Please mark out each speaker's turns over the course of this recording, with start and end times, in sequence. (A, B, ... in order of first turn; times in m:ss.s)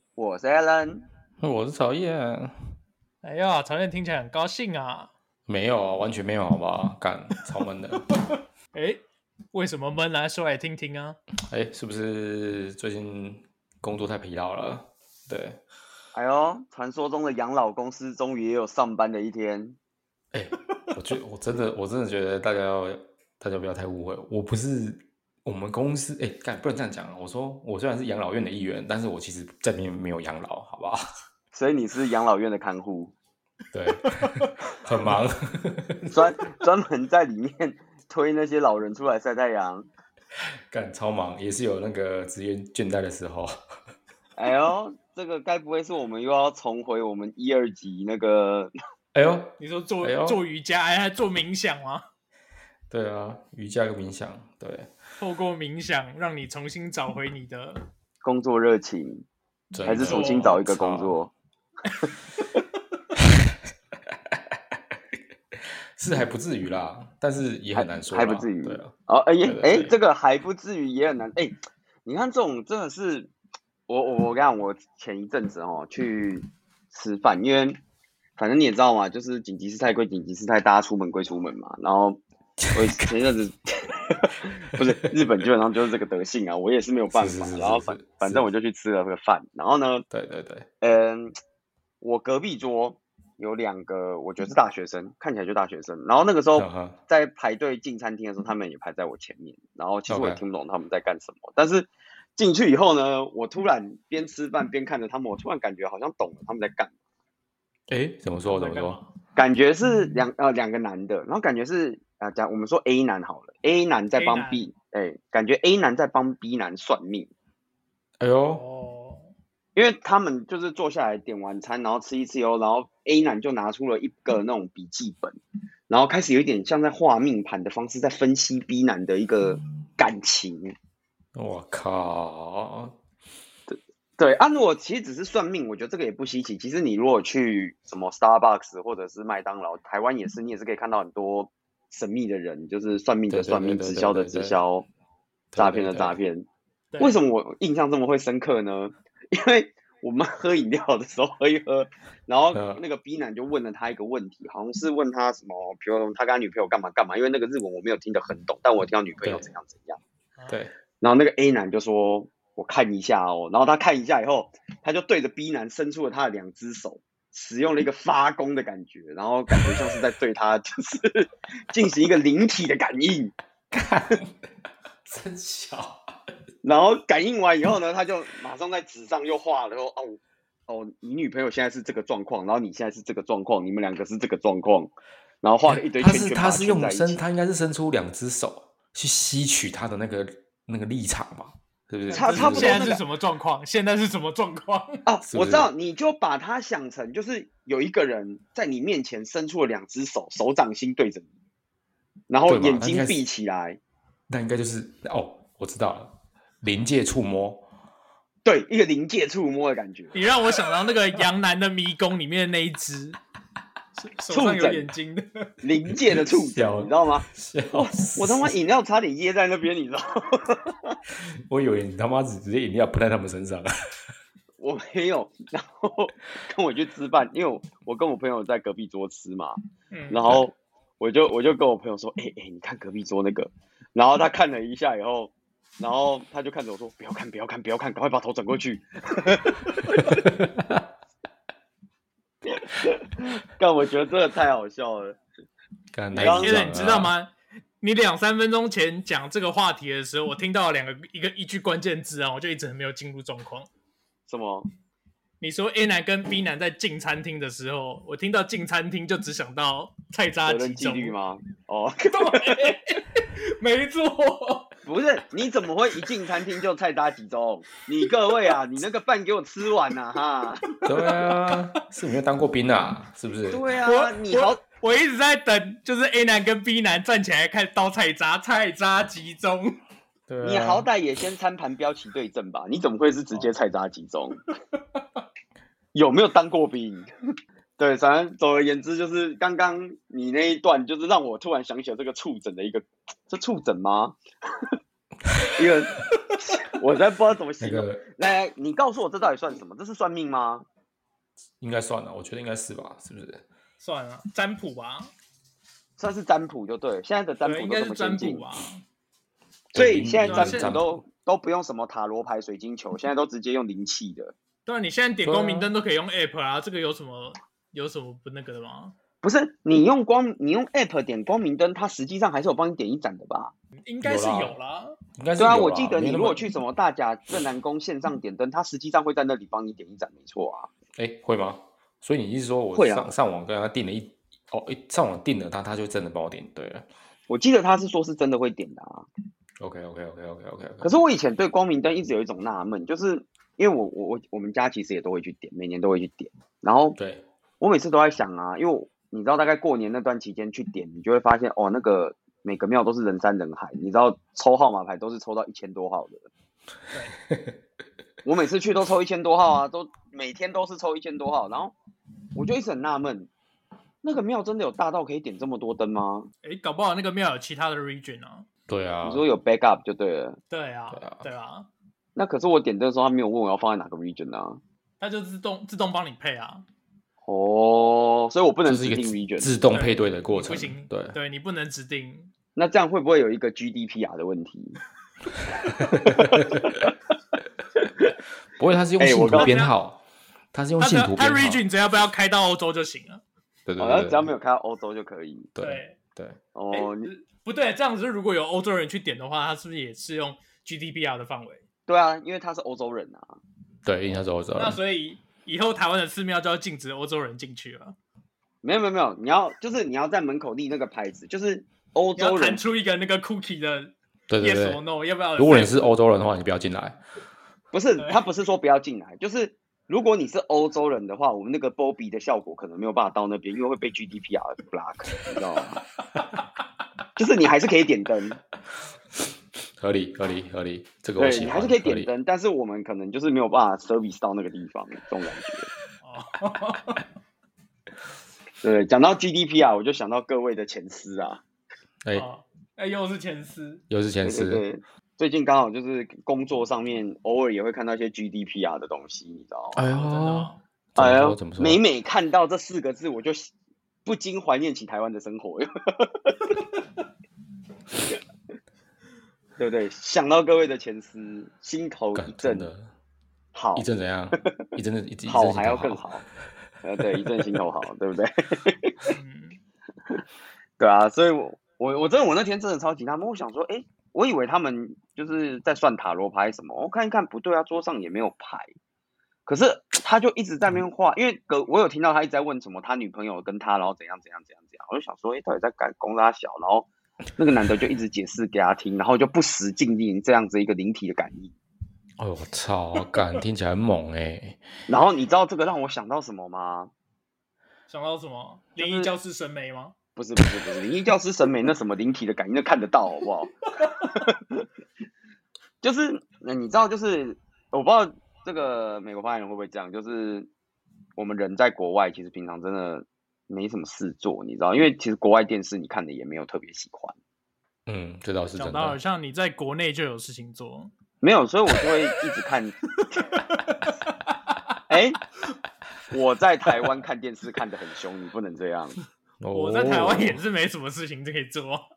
0:00.2-0:01.0 A
0:01.4-0:02.6 B
0:03.2-0:05.1 C
0:05.5-0:08.1 B
0:08.7-0:09.0 C
0:09.5-0:11.2 C
0:11.5-0:15.6 B
0:16.1-0:19.8 A
0:20.3-0:31.0 B
0:31.5-0:33.1 A
0:33.7-0:36.4 B
0:34.0-0:34.5 C
0:36.1-0:39.9 A
0:40.7-0:43.5 B
0:44.4-0:48.7 A
0:49.1-0:50.4 B
0:49.6-0:52.0 C
0:52.9-0:54.9 B
0:55.2-0:57.8 C
0:58.2-0:59.2 A
0:59.7-1:01.2 B
0:59.8-1:01.3 A
0:59.9-1:00.6 C
1:03.2-1:03.5 B
1:04.1-1:05.0 B
1:05.5-1:09.9 B
1:07.8-1:13.3 A
1:13.9-1:17.8 A
1:18.4-1:22.2 A
1:22.6-1:23.1 B
1:22.7-1:30.0 A
1:27.1-1:28.5 B
1:30.1-1:30.7 B
1:30.8-1:31.4 A
1:32.0-1:46.9 A
1:36.6-1:37.0 B
1:40.1-1:40.4 B
1:47.9-1:49.0 B
1:48.5-1:49.0 C
1:49.4-1:57.3 A
1:54.2-1:54.7 C
1:58.2-1:58.6 B
1:58.5-1:59.3 C
1:59.8-2:10.8 A
2:11.4-2:13.0 B
2:13.7-2:24.9 A
2:23.3-2:24.6 B
2:25.5-2:26.2 B
2:25.6-2:26.5 A
2:26.9-2:27.2 C
2:27.0-2:40.0 A
2:32.5-2:32.8 B
2:40.5-2:40.8 B
2:41.0-2:53.3 A
2:53.7-2:54.5 B
2:55.0-2:56.0 B
2:56.6-3:07.2 A
3:05.7-3:12.9 B
3:12.1-3:15.0 C
3:12.1-3:13.0 A
3:15.1-3:21.2 A
3:15.2-3:15.7 B
3:22.3-3:23.8 A
3:22.5-3:23.2 B
3:24.3-3:27.7 B
3:28.4-3:30.2 A
3:30.1-3:33.2 C
3:34.0-3:35.5 C
3:34.3-3:34.9 A
3:35.6-3:41.0 A
3:35.9-3:38.6 B
3:41.2-3:43.7 B
3:44.6-3:49.6 A
3:49.9-3:50.2 C
3:50.1-4:00.2 A
4:00.1-4:00.8 B
4:02.5-4:05.2 A
4:05.9-4:07.1 B
4:06.1-4:06.6 A
4:06.2-4:13.7 C
4:14.3-4:14.7 A
4:15.4-4:21.1 C
4:20.5-4:22.8 A
4:22.1-4:24.7 C
4:24.9-4:30.8 A
4:30.7-4:31.6 C
4:30.8-4:33.6 B
4:33.5-4:34.6 A
4:33.8-4:39.8 C
4:40.3-4:40.9 B
4:40.4-4:44.5 A
4:45.9-4:47.1 A
4:47.8-4:54.7 A
4:55.5-5:00.6 A
4:57.6-4:58.0 B
5:01.6-5:03.4 B
5:03.8-5:05.1 C
5:06.0-5:08.5 A
5:07.4-5:08.8 C
5:09.7-5:11.0 B
5:09.7-5:14.3 A
5:10.3-5:10.8 C
5:14.7-5:19.0 C
5:15.2-5:15.7 B
5:19.2-5:23.5 A
5:23.8-5:25.0 C
5:24.0-5:24.6 B
5:25.2-5:26.4 B
5:25.4-5:30.7 A
5:31.0-5:36.9 B
5:32.7-5:33.1 A
5:37.3-5:39.1 A
5:39.6-5:40.9 B
5:40.8-5:47.0 A
5:47.0-5:47.2 B
5:47.6-5:56.3 A
5:57.3-5:57.6 B
5:58.2-6:01.7 A
6:02.4-6:03.3 A
6:04.0-6:06.3 A
6:06.4-6:08.5 C
6:08.7-6:09.2 B
6:09.0-6:10.4 A
6:10.5-6:11.7 C
6:10.9-6:11.3 B
6:12.2-6:14.6 A
6:15.0-6:16.6 C
6:17.2-6:19.5 A
6:18.6-6:21.2 B
6:19.7-6:22.3 C
6:22.6-6:24.8 A
6:25.6-6:26.9 B
6:26.0-6:26.9 A
6:28.6-6:30.0 B
6:29.0-6:29.6 A
6:29.4-6:29.7 C
6:30.5-6:31.6 B
6:30.8-6:33.2 C
6:33.7-6:34.3 B
6:33.8-6:35.5 A
6:35.6-6:36.4 B
6:35.6-6:36.0 C
6:36.6-6:37.1 A
6:36.7-6:41.6 C
6:41.9-6:43.4 A
6:43.8-6:44.8 B
6:44.6-6:48.0 C
6:48.6-6:52.6 A
6:52.2-6:55.8 C
6:54.3-6:54.8 B
6:55.4-6:57.0 B
6:57.7-7:05.8 A
7:06.2-7:06.4 C
7:07.2-7:08.4 A
7:09.8-7:12.1 B
7:11.2-7:15.7 A
7:16.0-7:17.0 C
7:18.6-7:21.4 A
7:22.2-7:23.8 C
7:23.9-7:24.6 B
7:24.2-7:29.8 A
7:29.8-7:30.6 C
7:29.8-7:31.8 B
7:31.0-7:33.5 A
7:34.0-7:36.6 A
7:39.6-7:42.7 A
7:42.2-7:42.9 B
7:43.6-7:43.9 A
7:43.8-7:46.0 B
7:45.3-7:46.2 A
7:46.8-7:49.1 A
7:49.1-7:49.6 C
7:50.8-7:58.7 A
7:59.5-8:11.5 A
8:12.2-8:14.6 B
8:14.9-8:16.9 A
8:17.9-8:19.9 C
8:18.8-8:19.1 A
8:20.2-8:24.7 A
8:25.8-8:30.5 A
8:31.2-8:37.2 A
8:37.9-8:39.0 B
8:38.6-8:40.9 C
8:41.2-8:42.8 A
8:43.0-8:44.8 C
8:44.9-8:45.2 A
8:46.1-8:49.0 A
8:49.4-8:50.4 B
8:49.5-8:51.8 C